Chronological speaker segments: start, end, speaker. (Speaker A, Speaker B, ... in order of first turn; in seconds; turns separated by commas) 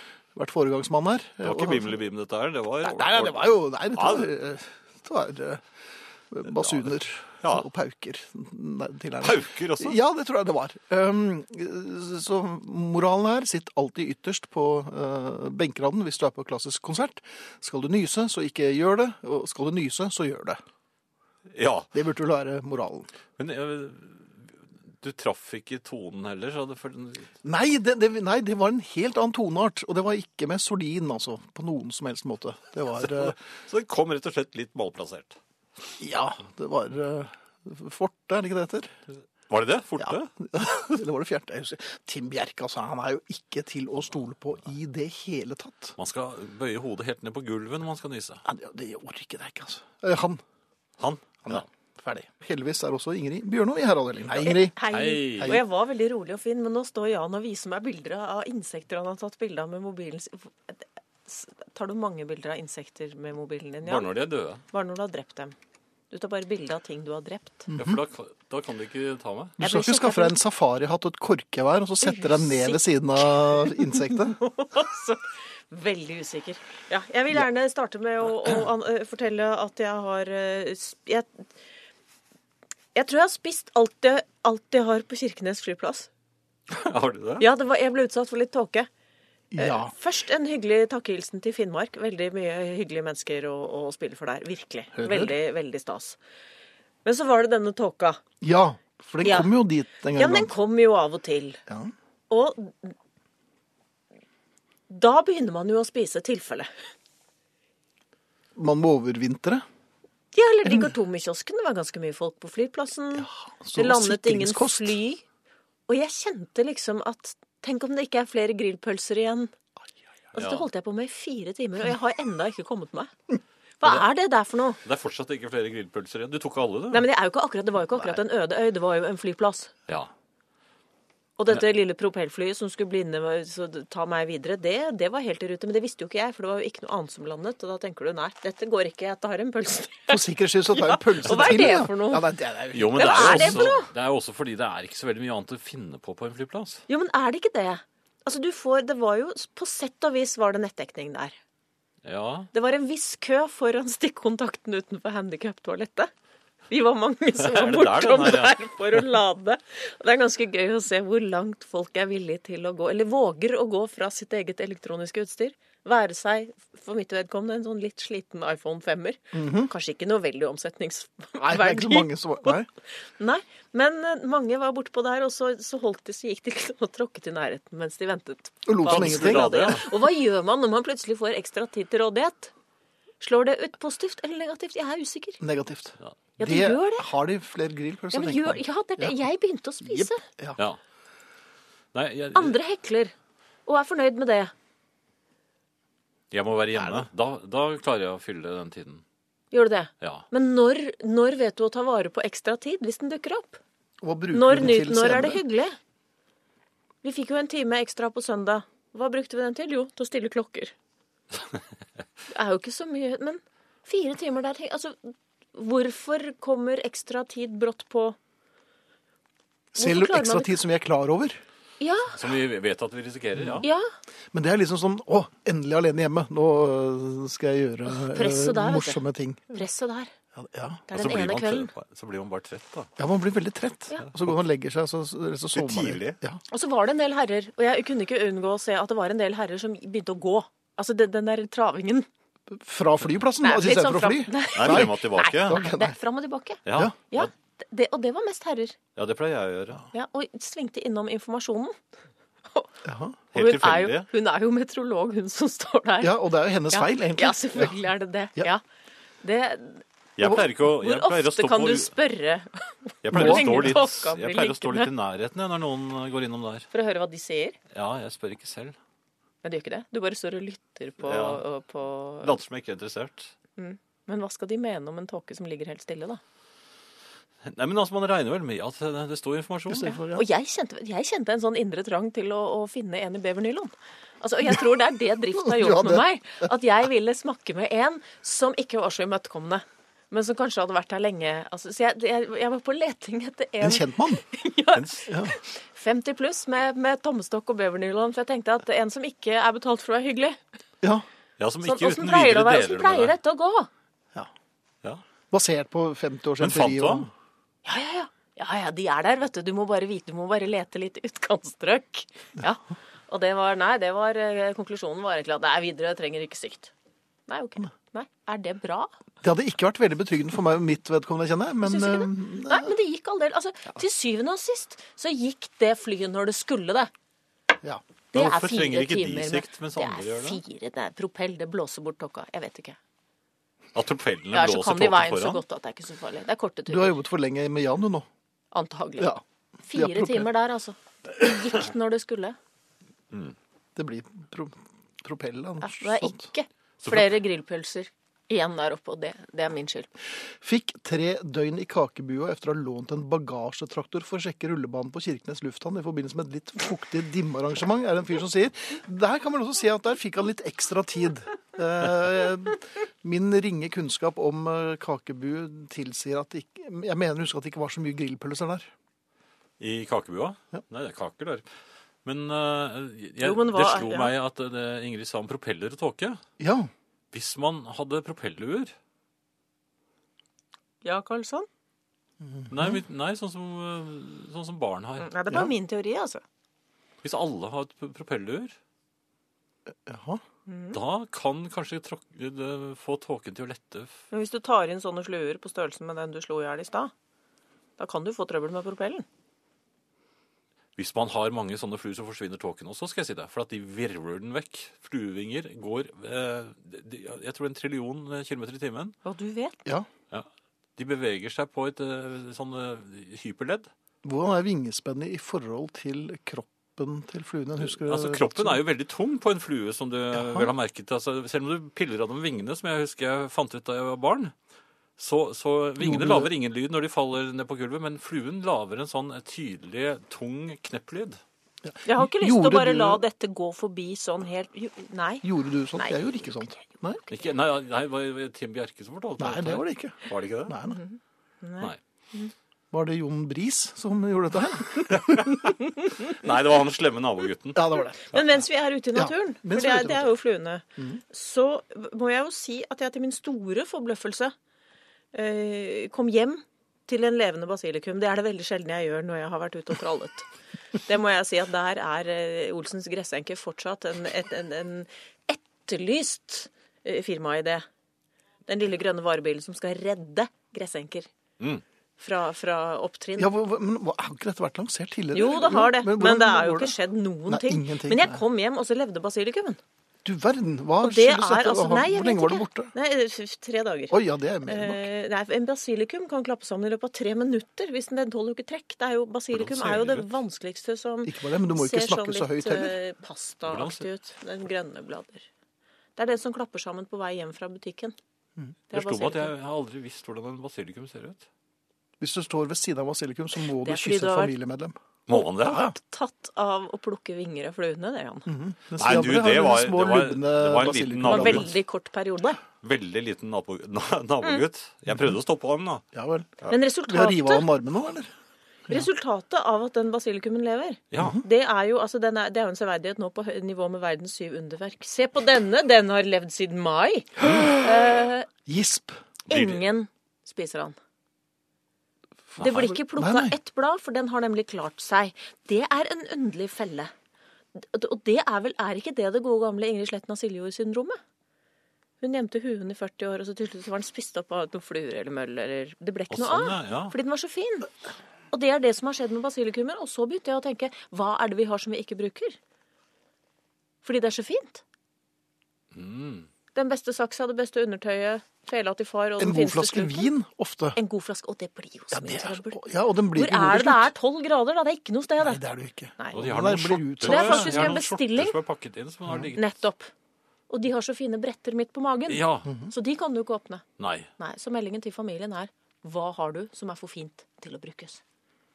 Speaker A: 0.3-2.0, Speaker B: 1.4-4.3, Speaker A: 2.8-5.6, Speaker A: 6.3-20.6, Speaker B: 6.6-6.9, Speaker B: 7.4-7.7, Speaker B: 9.2-10.0, Speaker B: 21.5-21.9, Speaker A: 21.9-23.1, Speaker B: 23.4-27.3, Speaker A: 27.4-33.4, Speaker B: 32.9-35.4, Speaker A: 36.0-38.9, Speaker B: 39.5-40.3, Speaker A: 40.0-46.0, Speaker B: 46.0-48.4, Speaker A: 48.5-50.4, Speaker B: 51.0-51.6, Speaker A: 51.5-54.8, Speaker C: 54.4-64.1, Speaker B: 54.9-55.6, Speaker A: 55.4-55.6, Speaker B: 63.8-64.6, Speaker C: 64.7-65.5, Speaker C: 66.1-67.7, Speaker A: 67.7-68.0, Speaker B: 67.8-69.6, Speaker A: 69.6-74.4, Speaker C: 69.6-70.4, Speaker C: 72.0-81.4, Speaker C: 83.0-86.1, Speaker B: 86.7-87.5, Speaker C: 87.4-88.9, Speaker A: 89.5-89.9, Speaker C: 89.6-96.2, Speaker A: 95.0-95.3, Speaker C: 97.0-98.2, Speaker A: 98.4-100.5, Speaker C: 99.2-99.5, Speaker C: 100.2-101.6, Speaker A: 101.7-101.9, Speaker C: 102.3-102.9, Speaker C: 104.9-106.7, Speaker A: 108.5-109.6, Speaker C: 110.3-115.2, Speaker A: 110.7-110.9, Speaker A: 113.2-115.0, Speaker C: 115.9-119.5, Speaker C: 120.3-123.1, Speaker B: 120.3-120.7, Speaker C: 123.8-124.8, Speaker B: 124.8-127.0, Speaker C: 126.9-129.7, Speaker C: 131.4-142.3, Speaker A: 140.1-143.7, Speaker B: 142.7-146.8, Speaker C: 142.9-143.9, Speaker C: 146.9-151.3, Speaker B: 152.0-152.5, Speaker C: 152.5-156.1, Speaker C: 156.7-172.6, Speaker B: 157.4-159.0, Speaker A: 169.3-169.7, Speaker A: 171.4-172.7, Speaker C: 173.2-182.5, Speaker A: 178.7-179.7, Speaker B: 178.9-179.9, Speaker C: 183.2-185.4, Speaker A: 185.4-189.2, Speaker C: 186.4-187.1, Speaker C: 188.1-190.2, Speaker A: 189.8-190.6, Speaker B: 191.9-192.6, Speaker C: 192.3-193.1, Speaker C: 193.7-194.5, Speaker B: 196.3-199.0, Speaker C: 199.5-203.6, Speaker B: 200.0-200.3, Speaker A: 204.0-205.4, Speaker C: 204.3-205.8, Speaker C: 207.0-210.7, Speaker C: 212.3-218.2, Speaker C: 219.8-220.6, Speaker A: 219.8-221.4, Speaker C: 221.8-222.2, Speaker B: 222.1-223.7, Speaker A: 223.4-223.6, Speaker C: 223.6-223.9, Speaker A: 224.3-229.6, Speaker C: 227.9-229.0, Speaker C: 229.5-230.1, Speaker A: 230.4-230.8, Speaker C: 230.9-231.7, Speaker B: 230.9-232.9, Speaker A: 233.0-236.4, Speaker B: 235.5-236.2, Speaker C: 236.5-242.1, Speaker A: 242.5-245.9, Speaker C: 243.4-248.8, Speaker B: 244.6-245.7, Speaker B: 246.7-247.3, Speaker B: 249.0-249.8, Speaker C: 249.9-251.8, Speaker A: 252.8-253.2, Speaker B: 253.3-254.1, Speaker C: 253.3-258.6, Speaker A: 256.0-257.8, Speaker C: 259.2-264.9, Speaker B: 260.2-261.9, Speaker B: 263.0-266.7, Speaker A: 263.1-263.7, Speaker C: 266.7-267.6, Speaker B: 267.7-268.8, Speaker C: 269.4-272.3, Speaker B: 271.0-271.4, Speaker B: 272.2-273.3, Speaker C: 273.6-276.2, Speaker B: 277.4-280.0, Speaker A: 279.7-280.2, Speaker C: 280.1-300.4, Speaker A: 285.4-286.5, Speaker A: 293.6-294.2, Speaker B: 294.7-295.1, Speaker A: 295.1-295.3, Speaker B: 301.4-303.1, Speaker C: 301.6-303.7, Speaker A: 305.3-307.1, Speaker B: 306.4-307.1, Speaker C: 307.6-316.7, Speaker C: 317.3-318.9, Speaker A: 319.2-322.7, Speaker C: 321.6-326.9, Speaker C: 328.1-332.8, Speaker B: 328.1-330.4, Speaker B: 333.7-335.4, Speaker C: 334.3-337.0, Speaker A: 336.7-338.1, Speaker C: 338.5-339.1, Speaker C: 339.7-342.4, Speaker A: 339.7-340.3, Speaker B: 343.1-343.4, Speaker A: 343.8-346.3, Speaker C: 345.6-349.9, Speaker A: 350.4-368.7, Speaker B: 369.6-371.5, Speaker B: 372.1-376.2, Speaker C: 373.2-374.1, Speaker A: 376.4-376.7, Speaker B: 377.1-378.8, Speaker C: 380.8-381.5, Speaker A: 382.2-382.8, Speaker B: 382.5-385.1, Speaker C: 385.0-386.2, Speaker B: 387.0-388.6, Speaker A: 389.7-390.2, Speaker C: 390.5-390.8, Speaker B: 390.7-394.0, Speaker C: 394.1-396.9, Speaker C: 397.8-399.1, Speaker B: 400.8-408.9, Speaker C: 409.1-409.6, Speaker B: 410.1-413.7, Speaker A: 414.0-418.6, Speaker B: 417.6-424.3, Speaker A: 420.1-420.5, Speaker B: 425.0-431.2, Speaker A: 425.8-426.3, Speaker A: 431.6-433.0, Speaker C: 431.9-435.3, Speaker A: 435.2-437.1, Speaker B: 437.1-440.5, Speaker A: 439.2-440.8, Speaker C: 440.7-442.3, Speaker A: 442.7-445.3, Speaker B: 444.9-445.5, Speaker B: 446.1-448.2, Speaker A: 447.6-448.2, Speaker C: 448.1-454.3, Speaker A: 448.9-450.1, Speaker C: 455.1-467.7, Speaker C: 468.5-471.1, Speaker C: 472.0-473.3, Speaker A: 473.2-476.8, Speaker C: 475.1-479.6, Speaker A: 477.3-478.2, Speaker A: 480.1-482.7, Speaker C: 480.8-483.9, Speaker A: 483.9-484.9, Speaker C: 484.5-495.3, Speaker B: 489.3-490.1, Speaker A: 491.1-492.8, Speaker B: 493.5-493.9, Speaker C: 496.0-497.9, Speaker C: 498.7-499.3, Speaker B: 498.7-501.2, Speaker A: 502.0-504.8, Speaker C: 503.4-504.4, Speaker B: 505.1-505.6, Speaker C: 505.1-508.3, Speaker A: 505.5-505.7, Speaker A: 508.3-511.5, Speaker B: 508.8-511.5, Speaker C: 511.0-512.4, Speaker B: 512.6-515.8, Speaker A: 515.9-518.1, Speaker C: 516.5-517.5, Speaker C: 518.7-528.3, Speaker B: 520.9-521.2, Speaker A: 521.0-521.2, Speaker A: 527.2-527.7, Speaker A: 528.5-529.0, Speaker C: 529.3-530.8, Speaker B: 529.3-529.6, Speaker A: 532.4-533.4, Speaker C: 532.4-536.9, Speaker C: 537.5-541.0, Speaker C: 542.0-547.7, Speaker B: 546.1-546.9, Speaker C: 548.3-552.4, Speaker C: 553.8-554.6, Speaker B: 555.7-556.3, Speaker C: 556.5-560.1, Speaker A: 559.2-560.8, Speaker C: 560.8-562.6, Speaker A: 561.9-563.9, Speaker C: 563.1-565.4, Speaker A: 565.2-567.8, Speaker B: 566.1-569.5, Speaker C: 567.0-568.4, Speaker C: 569.3-569.9, Speaker C: 570.5-573.6, Speaker B: 572.1-572.5, Speaker A: 572.5-572.7, Speaker B: 573.8-574.1, Speaker C: 574.2-578.0